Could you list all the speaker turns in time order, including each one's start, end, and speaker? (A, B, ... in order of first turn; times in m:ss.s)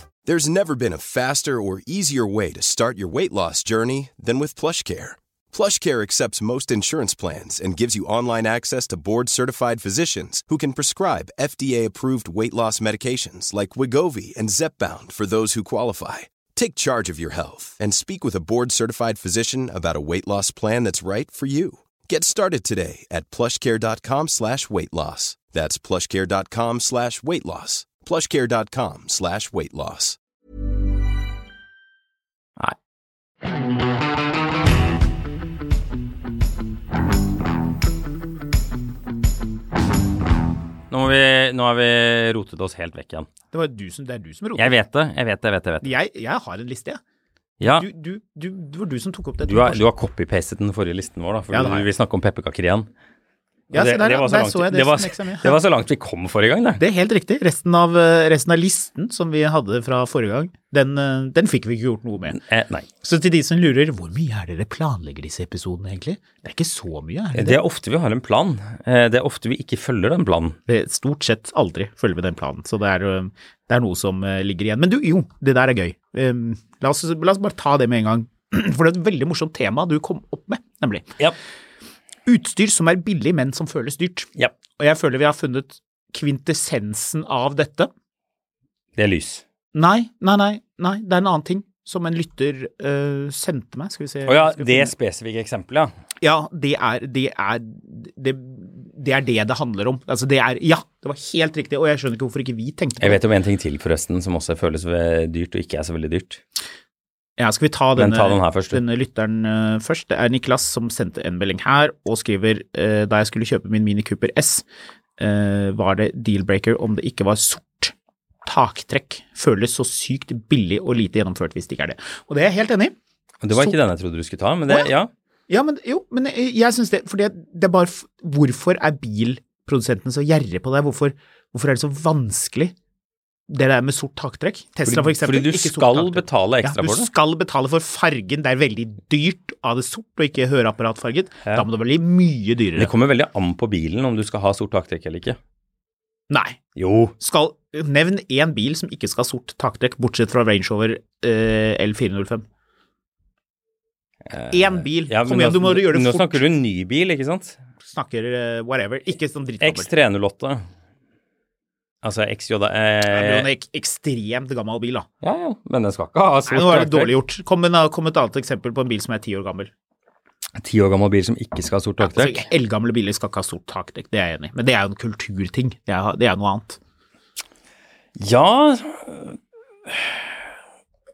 0:00.3-0:30.2 A
0:40.9-0:43.3 B
0:43.5-0:44.8 C
0:44.6-0:45.9 B
0:45.8-0:47.0 C
0:47.6-0:47.9 B
0:47.7-0:49.8 C
0:49.4-0:52.9 B
0:51.5-0:51.9 C
0:53.7-0:55.6 C
0:53.7-0:56.8 B
0:56.8-1:02.4 C
1:02.3-1:02.9 B
1:03.0-1:07.6 C
1:07.4-1:10.6 B
1:10.7-1:21.1 C
1:22.3-1:27.9 C
1:29.0-1:29.4 B
1:29.7-1:34.9 C
1:34.3-1:35.9 B
1:36.2-1:43.2 C
1:43.0-1:46.4 B
1:47.4-1:54.6 C
1:48.0-1:48.8 B
1:55.2-1:57.9 C
1:58.4-2:03.0 C
2:03.4-2:05.1 B
2:03.5-2:03.8 C
2:05.5-2:12.7 C
2:13.5-2:22.9 C
2:14.9-2:17.1 B
2:22.8-2:25.4 B
2:26.3-2:26.6 C
2:26.8-2:27.2 B
2:27.2-2:32.4 C
2:34.3-2:37.6 B
2:34.5-2:36.4 C
2:37.9-2:39.9 C
2:39.6-2:40.6 B
2:42.0-2:43.5 B
2:43.1-2:45.1 C
2:45.2-2:47.1 B
2:46.5-2:49.7 C
2:50.6-2:52.4 B
2:52.0-2:56.8 C
2:58.2-3:00.4 B